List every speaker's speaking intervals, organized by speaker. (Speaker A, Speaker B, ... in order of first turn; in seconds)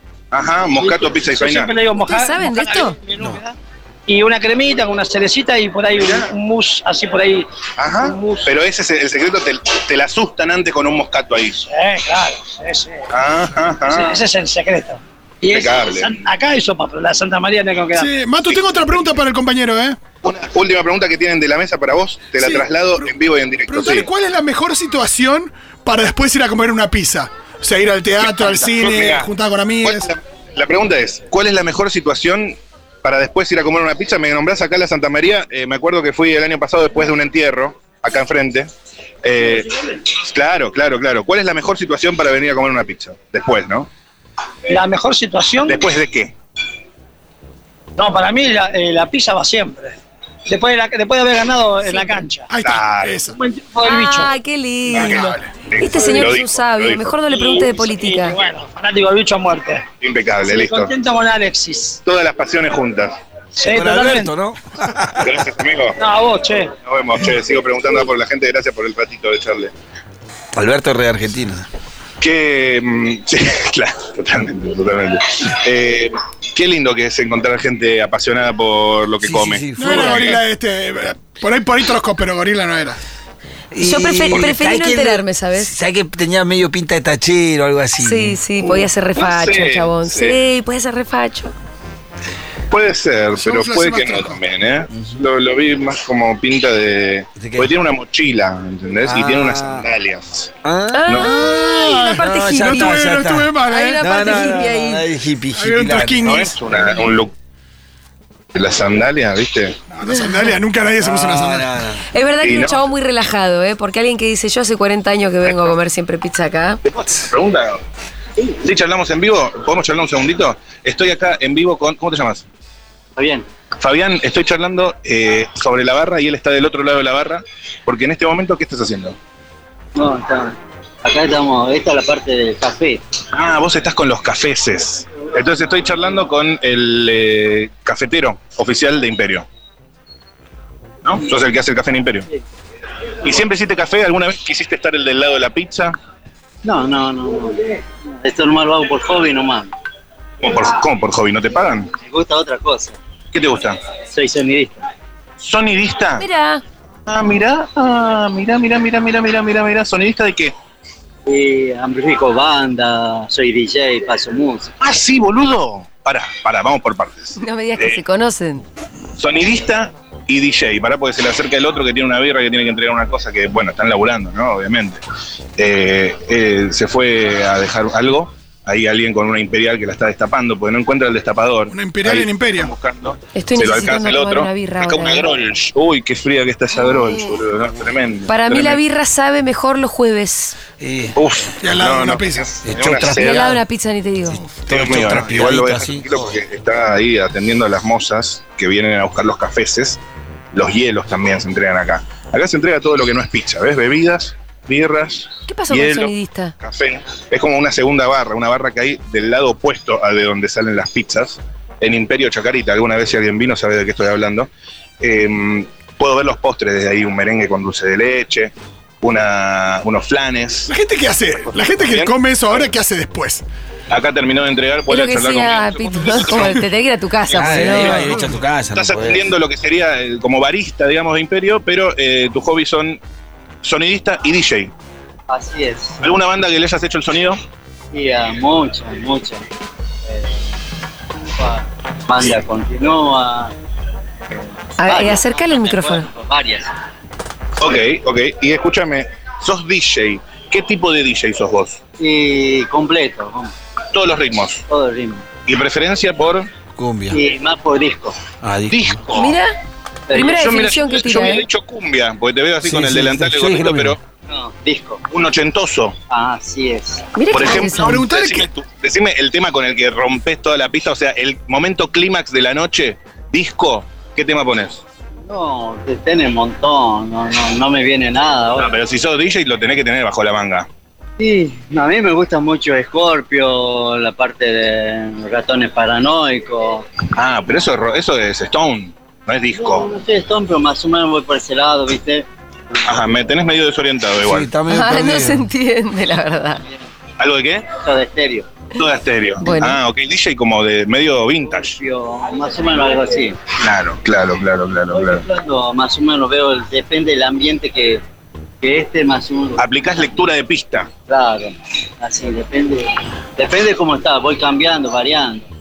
Speaker A: 0.3-1.8, 7.8-11.6, 13.1-14.2, 15.5-16.2, 18.5-19.1, 20.2-24.1, 28.2-29.3, 29.8-38.7, 39.2-43.9, 45.7-46.4, 52.6-53.2, 54.9-57.1, 60.0-60.9, 62.0-63.2, 65.2-66.0, 66.8-69.7, 72.2-80.4, 89.2-90.4, 92.7-100.5, 106.2-107.3, 108.5-109.8, 112.4-112.8, 116.9-117.8, 118.4-122.5, 123.8-129.2, 133.3-139.5, 141.0-142.3, 143.2-146.0, 150.4-151.9, 153.3-153.8, 155.4-156.3, 157.1-160.6, 164.8-168.0, 169.2-175.0, 175.6-188.8, 191.2-193.5, 194.7-200.0, 200.5-214.5, 215.0-220.7, 221.5-222.7, 223.9-226.6, 227.6-228.1, 228.7-233.0, 233.6-234.7, 236.0-237.4, 247.6-251.8, 253.9-254.6, 255.5-256.5, 258.7-259.4, 260.2-264.0, 265.1-266.0, 267.3-274.8, 278.6-280.7, 287.1-289.9, 292.8-294.5, 297.2-297.7, 298.7-301.8, 303.6-305.2, 309.6-310.9
Speaker B: 0.8-8.5, 11.6-13.1, 13.9-18.1, 44.7-45.8, 48.0-52.5, 53.4-54.3, 57.3-59.9, 60.4-62.0, 63.6-64.3, 66.0-66.7
Speaker C: 2.0-3.0, 53.8-58.4, 83.8-85.7, 88.0-91.5, 100.9-103.1, 103.7-105.0, 110.1-110.5, 112.1-116.8, 156.2-156.6, 167.4-168.7, 183.3-185.2, 186.9-187.2, 188.3-190.6, 193.1-194.4, 205.5-206.5, 224.9-228.0, 244.8-246.1, 259.1-259.6, 260.1-261.4, 267.1-268.0, 294.7-296.6, 299.4-299.8
Speaker D: 17.9-20.0, 22.4-22.6, 23.7-30.1, 52.5-53.4, 54.9-55.5, 79.8-83.0, 88.6-88.9, 93.4-94.4, 101.2-104.5, 105.5-106.6, 109.9-111.8, 181.7-182.7, 191.6-192.5, 194.3-195.2, 220.7-223.4, 227.8-228.2, 267.6-268.5
Speaker E: 63.7-65.3, 70.5-71.7, 79.2-80.4, 83.7-88.4, 97.4-97.7, 99.1-99.9, 100.6-101.1, 102.2-106.4, 111.0-112.0, 190.8-191.2, 192.7-193.6, 194.7-196.4, 227.3-229.3, 256.8-257.2, 258.4-259.0, 262.6-264.0, 294.2-295.5
Speaker F: 123.2-123.5, 130.0-133.0, 146.6-149.7, 152.0-153.0, 154.1-154.8, 161.3-164.7, 235.3-236.0, 237.9-239.4, 240.1-240.5, 241.2-243.5, 244.8-246.7, 252.0-253.5, 254.7-255.3, 257.1-258.2, 260.1-260.5, 264.3-265.0, 266.1-267.1, 275.3-278.8, 281.2-286.9, 289.5-292.9, 297.8-298.5, 301.5-303.4, 304.9-308.0, 308.6-310.1, 311.1-315.5